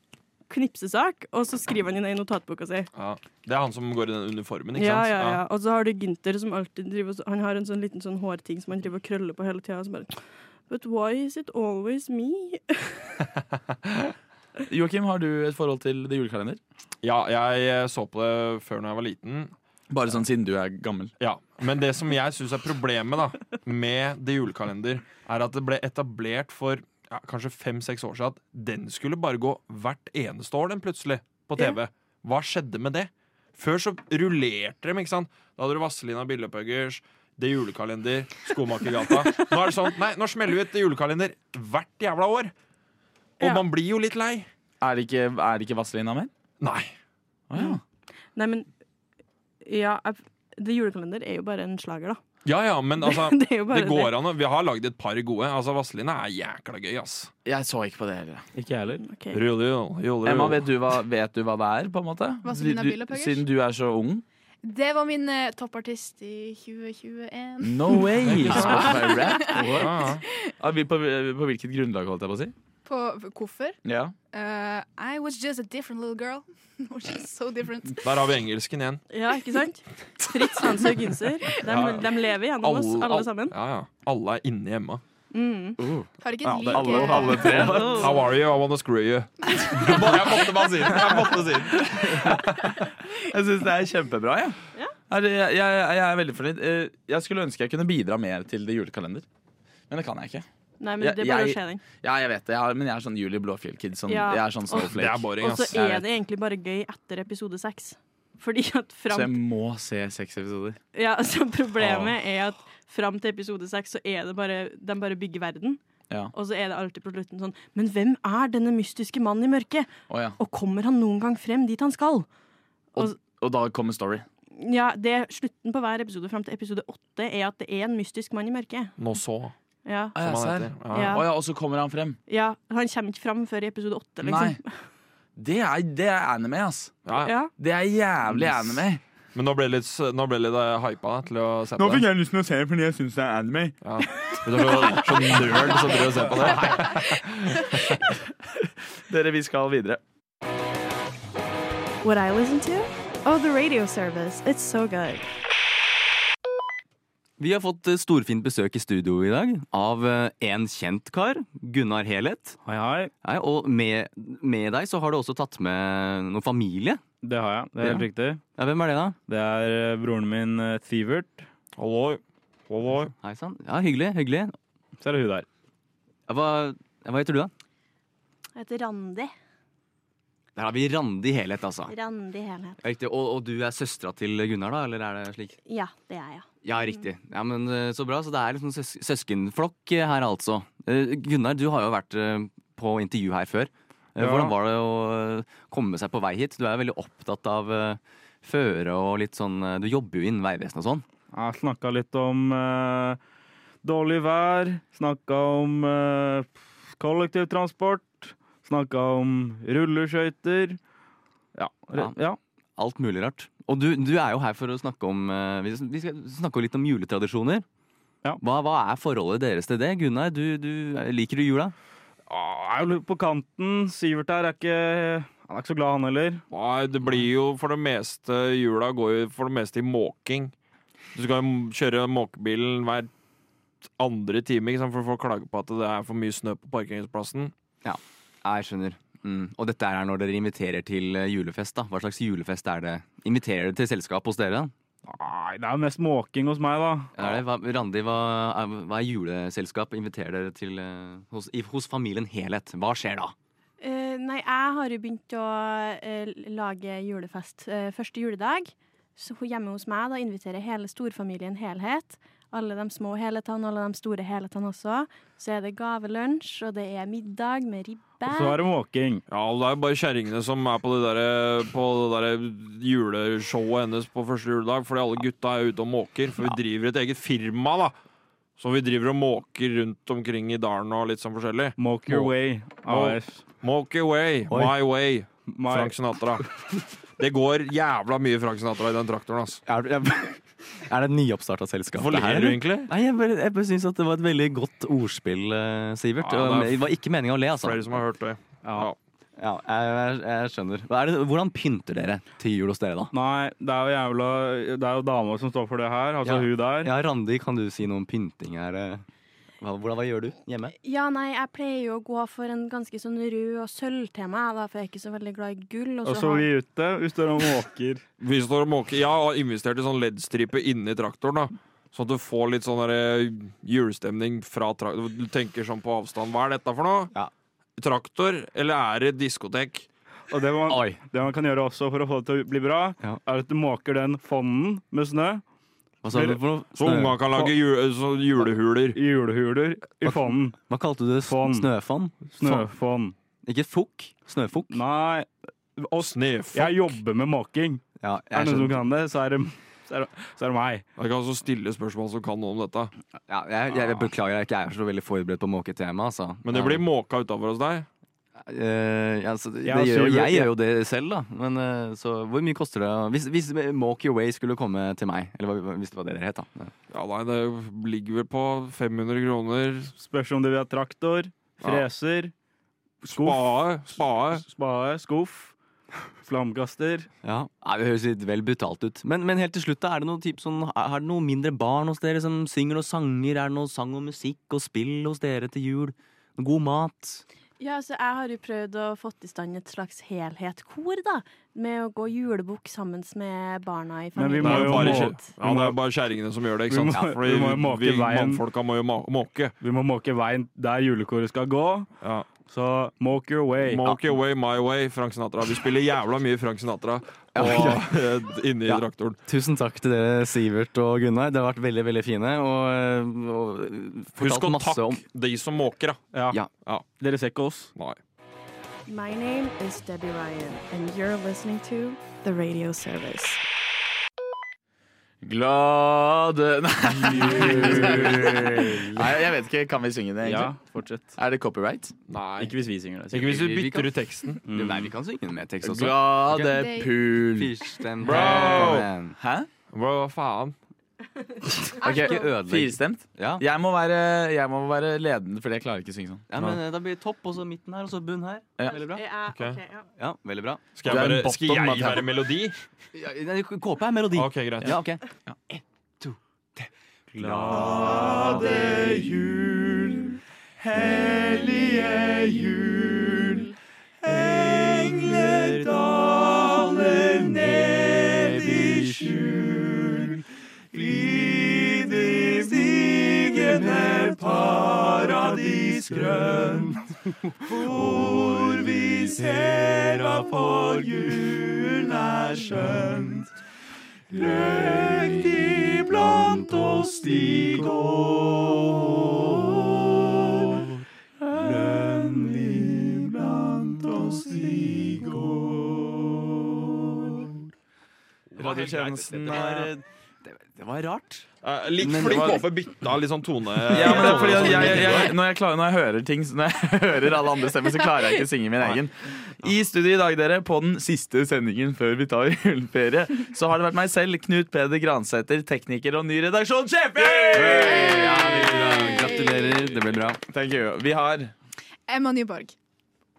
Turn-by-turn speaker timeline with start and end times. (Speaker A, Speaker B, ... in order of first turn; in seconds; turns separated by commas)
Speaker A: 0.5-2.9, Speaker B: 2.9-5.4, Speaker A: 4.8-13.2, Speaker C: 14.7-16.6, Speaker B: 17.0-19.5, Speaker C: 19.9-21.1, Speaker B: 21.2-42.5, Speaker A: 43.4-43.6, Speaker B: 43.4-44.5, Speaker C: 44.8-46.3, Speaker B: 46.6-46.9, Speaker C: 47.5-47.8, Speaker A: 48.4-48.7, Speaker A: 49.6-52.2, Speaker B: 52.5-57.3, Speaker A: 53.0-54.1, Speaker C: 57.5-58.5, Speaker D: 58.5-59.0, Speaker A: 59.0-59.4, Speaker B: 59.3-60.7, Speaker C: 60.2-64.2, Speaker E: 62.4-63.5, Speaker E: 64.6-70.2, Speaker C: 67.6-69.9, Speaker B: 68.2-70.2, Speaker C: 70.6-72.5, Speaker E: 72.8-73.8, Speaker C: 73.8-74.1, Speaker E: 74.3-78.1, Speaker B: 78.0-79.0, Speaker A: 79.1-83.5, Speaker B: 81.6-82.1, Speaker B: 82.6-85.0, Speaker A: 85.3-85.8, Speaker C: 85.8-86.1, Speaker E: 86.2-88.2, Speaker B: 86.4-92.7, Speaker C: 86.7-88.2, Speaker F: 87.6-88.0, Speaker C: 90.9-91.3, Speaker C: 91.9-94.6, Speaker C: 95.1-99.3, Speaker C: 99.9-100.5, Speaker A: 100.8-101.8, Speaker C: 101.0-106.0, Speaker A: 104.1-109.4, Speaker B: 104.8-105.8, Speaker C: 109.1-110.8, Speaker A: 110.9-115.8, Speaker A: 116.3-122.3, Speaker C: 120.1-120.4, Speaker C: 123.0-124.3, Speaker A: 124.6-128.9, Speaker B: 129.0-129.5, Speaker A: 129.9-130.2, Speaker C: 130.2-132.2, Speaker B: 130.2-131.2, Speaker A: 130.9-131.3, Speaker A: 132.3-134.8, Speaker C: 134.2-134.6, Speaker C: 135.4-136.9, Speaker B: 137.1-137.3, Speaker A: 137.2-137.5, Speaker C: 137.6-139.0, Speaker B: 139.3-142.1, Speaker C: 141.8-143.8, Speaker B: 143.8-148.0, Speaker C: 149.1-150.0, Speaker A: 152.0-155.2, Speaker F: 157.4-162.6, Speaker D: 162.6-163.1, Speaker F: 163.2-167.0, Speaker D: 167.2-168.4, Speaker F: 167.8-169.2, Speaker D: 169.3-171.5, Speaker B: 171.8-173.1, Speaker F: 173.2-174.5, Speaker D: 175.0-175.5, Speaker F: 176.3-177.5, Speaker A: 178.6-179.3, Speaker F: 180.6-181.9, Speaker A: 181.9-182.8, Speaker F: 182.8-185.6, Speaker A: 185.7-187.0, Speaker F: 186.6-201.1, Speaker D: 194.2-194.5, Speaker D: 201.3-203.2, Speaker D: 203.8-210.8, Speaker D: 211.6-212.4, Speaker F: 212.8-217.7, Speaker F: 218.4-221.8, Speaker D: 222.3-226.4, Speaker B: 226.5-230.5, Speaker B: 231.1-233.1, Speaker B: 234.0-237.5, Speaker F: 237.8-244.7, Speaker D: 245.1-247.1, Speaker F: 247.2-253.3, Speaker A: 253.8-268.6, Speaker D: 268.3-269.2, Speaker B: 269.3-277.9, Speaker B: 278.6-286.5, Speaker D: 281.8-283.4, Speaker D: 285.5-286.5, Speaker B: 287.2-289.6, Speaker F: 289.7-298.0, Speaker B: 291.9-292.9, Speaker B: 296.2-296.9, Speaker B: 297.6-299.0, Speaker D: 298.6-298.9, Speaker F: 299.4-303.1, Speaker D: 303.1-306.9, Speaker F: 306.2-309.1, Speaker F: 309.6-310.7, Speaker A: 310.8-316.5, Speaker D: 316.1-318.0, Speaker B: 318.2-327.1, Speaker B: 327.8-329.9, Speaker D: 330.3-335.4, Speaker F: 330.6-331.0, Speaker F: 336.0-337.4, Speaker D: 336.1-336.4, Speaker B: 336.8-339.0, Speaker D: 338.9-340.6, Speaker F: 340.0-342.3, Speaker D: 341.2-341.7, Speaker D: 342.2-343.1, Speaker F: 343.4-344.8, Speaker D: 344.7-350.8, Speaker B: 346.0-347.0, Speaker F: 348.0-348.8, Speaker B: 351.0-352.9, Speaker F: 353.3-356.8, Speaker B: 356.4-357.9, Speaker F: 358.4-366.7, Speaker D: 359.6-360.5, Speaker B: 366.9-369.9, Speaker D: 369.9-372.3, Speaker B: 373.0-374.4, Speaker D: 373.0-375.5, Speaker D: 376.2-377.1, Speaker F: 377.2-387.2, Speaker A: 387.6-395.2, Speaker D: 394.2-395.8, Speaker B: 394.4-399.6, Speaker D: 396.7-398.4, Speaker D: 399.6-401.9, Speaker B: 402.0-402.3, Speaker D: 402.4-403.8, Speaker B: 403.6-409.2, Speaker F: 403.8-404.1, Speaker F: 407.4-407.9, Speaker F: 408.7-415.0, Speaker B: 414.2-416.9, Speaker D: 416.1-416.4, Speaker D: 416.9-417.7, Speaker A: 418.9-423.4, Speaker C: 425.2-430.5, Speaker D: 427.0-429.2, Speaker D: 430.2-431.1, Speaker C: 431.2-431.9, Speaker B: 432.1-432.6, Speaker D: 432.4-433.4, Speaker B: 433.1-434.4, Speaker F: 433.3-436.6, Speaker D: 434.4-434.9, Speaker C: 435.6-437.5, Speaker E: 436.4-436.9, Speaker F: 437.2-439.2, Speaker B: 438.0-438.9, Speaker C: 438.1-439.5, Speaker B: 439.7-440.6, Speaker A: 441.7-442.3, Speaker C: 441.8-446.2, Speaker F: 441.8-443.4, Speaker F: 446.3-449.0, Speaker A: 448.7-449.9, Speaker B: 449.3-449.6, Speaker F: 450.0-450.7, Speaker B: 450.8-452.6, Speaker C: 450.9-452.1, Speaker F: 452.9-459.1, Speaker B: 454.1-454.8, Speaker D: 457.3-457.9, Speaker C: 457.6-460.1, Speaker C: 460.6-463.4, Speaker C: 464.0-467.1, Speaker F: 467.5-469.1, Speaker C: 468.8-469.8, Speaker C: 470.8-471.8, Speaker C: 473.4-474.5, Speaker F: 477.5-478.8, Speaker F: 484.4-487.9, Speaker F: 490.4-490.7, Speaker F: 491.3-493.1, Speaker F: 493.7-495.0, Speaker C: 493.9-495.2, Speaker F: 498.4-501.3, Speaker B: 498.4-499.7, Speaker C: 498.4-499.7, Speaker B: 501.4-505.1, Speaker F: 501.8-502.5, Speaker C: 503.7-518.2, Speaker F: 503.8-505.1, Speaker B: 517.1-519.7, Speaker F: 517.3-520.2, Speaker C: 520.3-521.3, Speaker E: 521.9-522.5